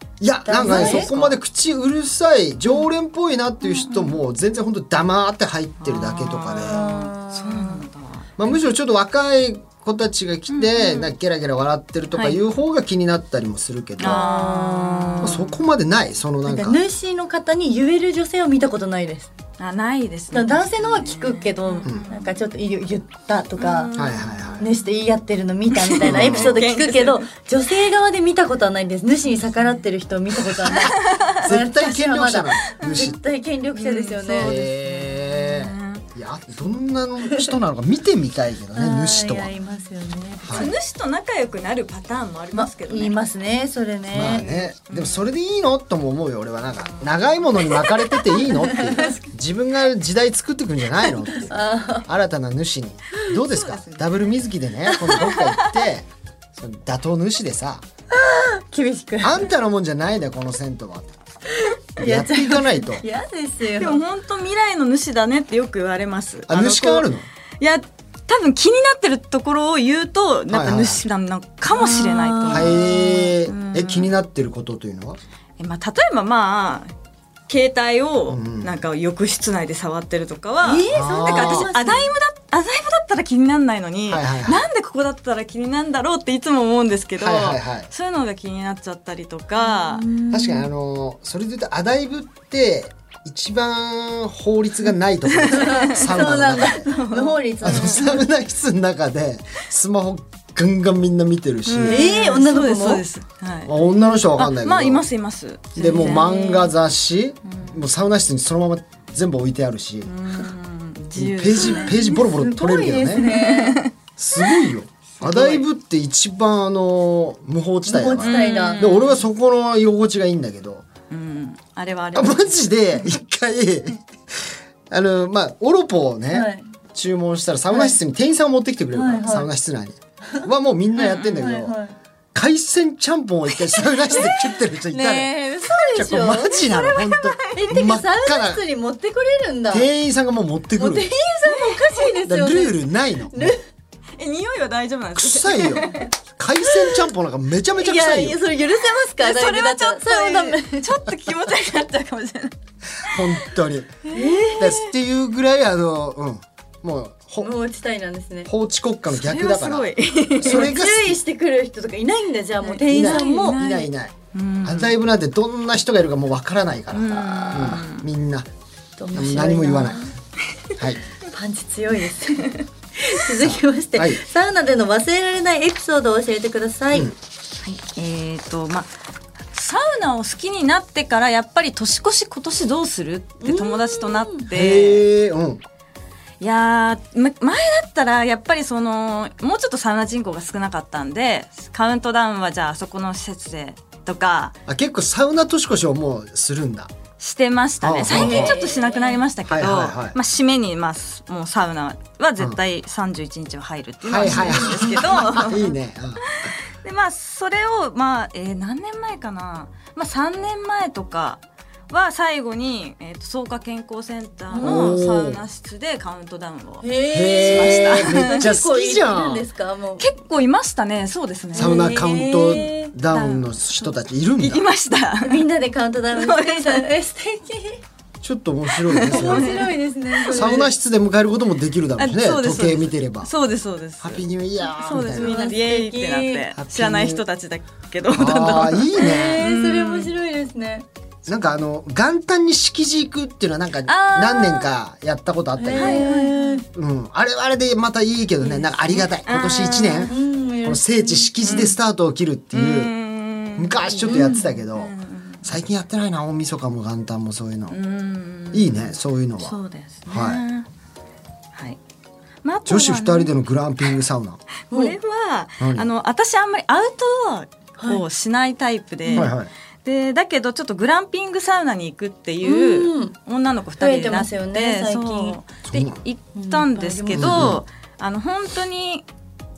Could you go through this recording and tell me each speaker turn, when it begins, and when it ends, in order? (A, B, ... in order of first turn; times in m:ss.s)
0:00.2-0:06.8 A
0:00.4-0:01.1 B
0:00.6-0:01.4 C
0:03.6-0:04.2 C
0:05.8-0:08.4 C
0:06.6-0:07.8 B
0:08.4-0:14.2 A
0:10.5-0:11.1 C
0:14.0-0:15.6 C
0:14.0-0:15.4 B
0:15.2-0:16.8 A
0:16.4-0:19.3 B
0:19.6-0:22.3 C
0:20.3-0:23.9 B
0:23.6-0:24.8 C
0:24.0-0:24.6 A
0:24.6-0:34.6 B
0:25.7-0:27.2 C
0:26.0-0:26.6 A
0:29.4-0:29.8 C
0:30.9-0:33.2 A
0:31.0-0:31.4 C
0:32.8-0:33.1 C
0:33.7-0:36.0 C
0:34.4-0:39.5 A
0:37.3-0:37.5 B
0:38.7-0:40.6 B
0:40.4-0:40.7 A
0:40.5-0:43.1 C
0:42.5-0:44.4 B
0:44.1-0:57.8 A
0:44.2-0:45.2 C
0:46.8-0:47.3 C
0:48.6-0:49.2 B
0:51.2-0:52.1 B
0:53.2-0:54.4 C
0:55.0-0:55.8 C
0:58.1-0:59.5 B
0:59.2-1:01.1 A
1:01.5-1:04.0 B
1:02.0-1:03.0 A
1:03.8-1:07.1 C
1:06.5-1:07.3 A
1:07.6-1:14.1 C
1:10.5-1:11.0 A
1:11.7-1:13.2 B
1:12.5-1:15.2 A
1:15.6-1:16.9 C
1:17.5-1:30.0 C
1:18.3-1:18.7 A
1:20.6-1:22.1 B
1:20.9-1:21.7 A
1:24.1-1:24.6 A
1:27.2-1:27.9 A
1:29.6-1:30.7 B
1:30.3-1:36.9 A
1:35.3-1:38.2 C
1:35.5-1:38.2 B
1:37.6-1:42.1 A
1:41.7-1:43.7 C
1:41.8-1:43.0 B
1:43.6-1:45.0 A
1:44.3-1:46.7 C
1:45.8-1:50.1 A
1:47.5-1:47.8 C
1:50.0-1:51.9 C
1:51.1-1:53.3 A
1:51.6-1:53.8 B
1:53.1-1:55.6 C
1:54.2-2:00.8 A
1:57.8-1:58.8 B
1:58.2-1:59.2 C
2:01.1-2:02.6 C
2:02.1-2:11.7 A
2:06.3-2:06.6 B
2:08.9-2:09.5 B
2:11.0-2:11.4 C
2:11.3-2:11.9 B
2:12.3-2:18.6 A
2:14.9-2:16.8 B
2:16.7-2:17.7 C
2:17.5-2:19.9 B
2:19.7-2:21.1 A
2:20.8-2:23.6 B
2:21.4-2:22.0 C
2:22.2-2:23.6 A
2:24.2-2:26.1 C
2:25.2-2:28.4 A
2:27.8-2:30.9 B
2:29.2-2:33.3 C
2:33.0-2:33.9 A
2:34.1-2:34.9 C
2:34.1-2:34.6 B
2:34.6-2:37.5 A
2:37.4-2:38.5 B
2:38.4-2:41.2 A
2:39.1-2:40.7 C
2:40.4-2:43.6 B
2:42.6-2:44.9 C
2:42.9-2:48.5 A
2:46.9-2:48.1 C
2:49.0-2:50.1 B
2:49.1-2:50.0 A
2:51.3-2:57.1 B
2:53.3-2:54.2 A
2:57.6-2:58.9 C
2:59.5-3:05.0 C
3:03.4-3:04.5 B
3:04.5-3:05.6 A
3:06.4-3:14.5 C
3:14.7-3:16.9 A
3:17.2-3:25.7 C
3:17.8-3:18.6 A
3:18.1-3:19.2 B
3:19.4-3:20.2 A
3:24.0-3:26.3 A
3:24.2-3:25.3 B
3:26.3-3:38.5 C
3:34.5-3:35.0 B
3:34.6-3:35.4 A
3:36.8-3:40.1 B
3:37.1-3:39.4 A
3:40.0-3:42.2 C
3:41.5-3:42.9 B
3:41.5-3:44.6 A
3:43.0-3:45.4 C
3:45.2-3:47.8 B
3:46.1-3:46.9 C
3:48.2-3:49.6 A
3:48.8-3:50.6 C
3:49.1-3:50.7 B
3:50.3-3:53.3 A
3:52.0-4:00.1 C
3:54.0-3:55.4 A
3:54.9-3:56.5 B
3:56.6-3:57.2 A
3:58.1-3:59.4 A
3:58.9-4:00.8 B
4:01.2-4:06.1 A
4:03.8-4:04.7 C
4:05.6-4:06.6 B
4:05.7-4:06.6 C
4:06.7-4:12.9 A
4:08.6-4:10.1 C
4:10.1-4:11.3 B
4:11.4-4:11.8 C
4:12.5-4:15.4 C
4:13.6-4:17.8 A
4:14.1-4:14.5 B
4:17.7-4:20.7 C
4:18.5-4:19.6 A
4:20.1-4:20.4 A
4:22.4-4:23.3 C
4:22.6-4:24.4 A
4:24.7-4:39.0 C
4:25.6-4:25.9 A
4:27.8-4:28.0 B
4:29.0-4:29.3 B
4:29.1-4:29.5 A
4:32.4-4:33.1 B
4:33.8-4:35.4 B
4:35.7-4:36.0 A
4:36.3-4:37.5 B
4:37.1-4:37.6 A